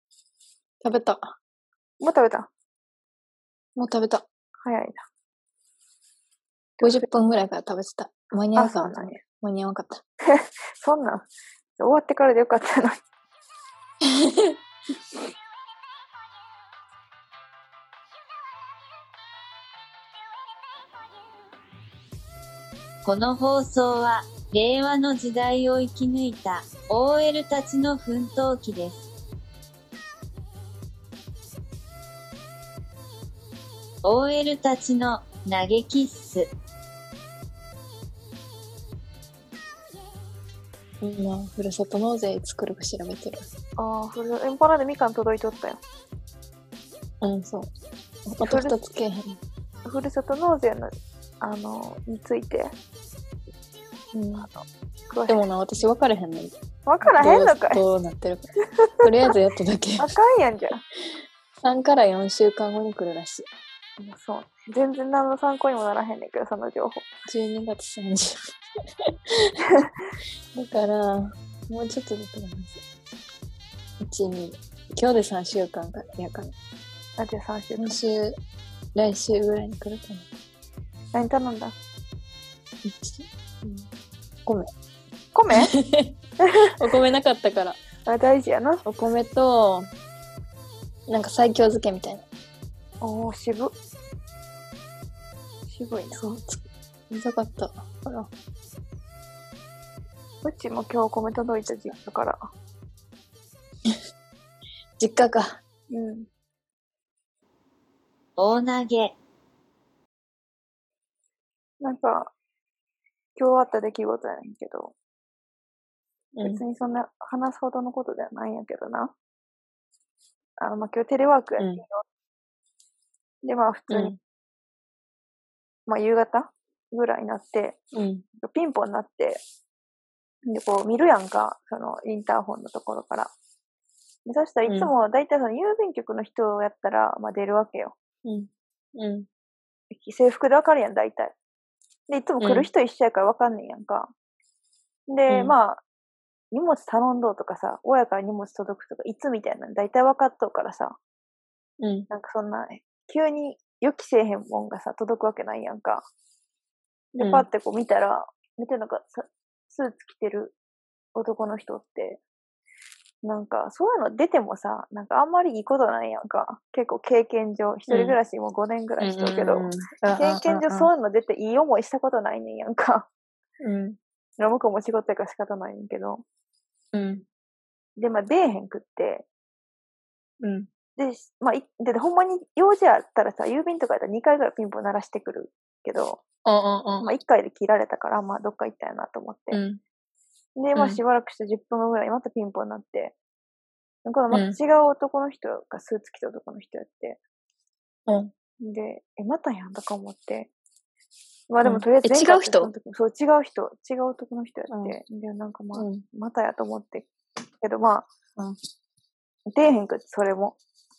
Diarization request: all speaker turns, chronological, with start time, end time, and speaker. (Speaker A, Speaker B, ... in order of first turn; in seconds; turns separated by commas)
Speaker A: 0.8-1.3, Speaker B: 2.0-2.5, Speaker A: 3.8-4.2, Speaker B: 4.6-5.0, Speaker B: 6.8-7.1, Speaker A: 6.8-10.0, Speaker B: 8.6-9.2, Speaker B: 10.3-11.3, Speaker B: 11.8-13.0, Speaker A: 14.1-14.6, Speaker C: 23.1-29.1, Speaker C: 34.0-36.5, Speaker A: 41.0-43.5, Speaker B: 43.8-45.8, Speaker A: 47.2-47.7, Speaker A: 48.3-49.4, Speaker B: 48.4-48.7, Speaker B: 49.9-52.8, Speaker B: 54.1-55.5, Speaker A: 55.3-58.5, Speaker B: 56.9-57.8, Speaker B: 58.8-59.0, Speaker A: 59.0-60.1, Speaker B: 60.0-60.8, Speaker A: 61.6-63.5, Speaker B: 64.0-67.1, Speaker A: 67.3-68.4, Speaker A: 69.1-69.5, Speaker A: 70.5-72.8, Speaker A: 74.0-76.5, Speaker B: 77.2-78.0, Speaker A: 77.8-78.4, Speaker A: 79.0-80.3, Speaker B: 81.1-81.8, Speaker A: 82.8-83.9, Speaker B: 85.3-85.7, Speaker A: 85.7-86.1, Speaker B: 86.4-86.7, Speaker A: 86.7-87.8, Speaker B: 88.1-88.8, Speaker A: 88.8-89.9, Speaker A: 91.1-92.2, Speaker B: 93.0-93.7, Speaker B: 95.7-96.4, Speaker A: 96.1-97.8, Speaker B: 100.4-102.4, Speaker A: 105.0-105.6, Speaker B: 105.9-106.3, Speaker C: 108.4-109.2, Speaker B: 111.8-112.3, Speaker B: 113.4-115.0, Speaker A: 116.4-116.6, Speaker B: 116.4-119.1, Speaker B: 120.6-122.0, Speaker A: 121.6-121.8, Speaker B: 123.4-124.2, Speaker A: 123.9-124.2, Speaker B: 125.9-127.8, Speaker A: 127.9-128.2, Speaker B: 128.4-129.4, Speaker B: 130.5-133.3, Speaker B: 134.3-137.9, Speaker A: 134.7-134.9, Speaker A: 138.2-139.3, Speaker B: 139.9-141.4, Speaker B: 142.1-144.1, Speaker A: 142.4-142.7, Speaker B: 145.1-145.8, Speaker A: 145.3-145.6, Speaker B: 146.5-151.0, Speaker A: 151.8-152.1, Speaker B: 152.1-156.1, Speaker B: 157.2-160.6, Speaker A: 157.2-157.5, Speaker B: 161.2-162.2, Speaker B: 163.2-173.1, Speaker A: 167.9-168.2, Speaker A: 169.0-170.9, Speaker A: 173.6-174.0, Speaker B: 174.4-176.2, Speaker A: 176.9-177.2, Speaker B: 178.0-179.3, Speaker A: 180.4-180.7, Speaker B: 181.0-186.2, Speaker A: 186.4-187.1, Speaker B: 187.0-189.6, Speaker A: 189.5-189.8, Speaker B: 190.6-193.2, Speaker A: 190.8-191.0, Speaker B: 194.1-197.2, Speaker A: 194.3-194.6, Speaker A: 198.1-198.3, Speaker B: 198.6-200.5, Speaker B: 201.5-208.1, Speaker A: 201.6-202.7, Speaker A: 204.7-205.0, Speaker A: 205.8-206.1, Speaker B: 209.5-210.6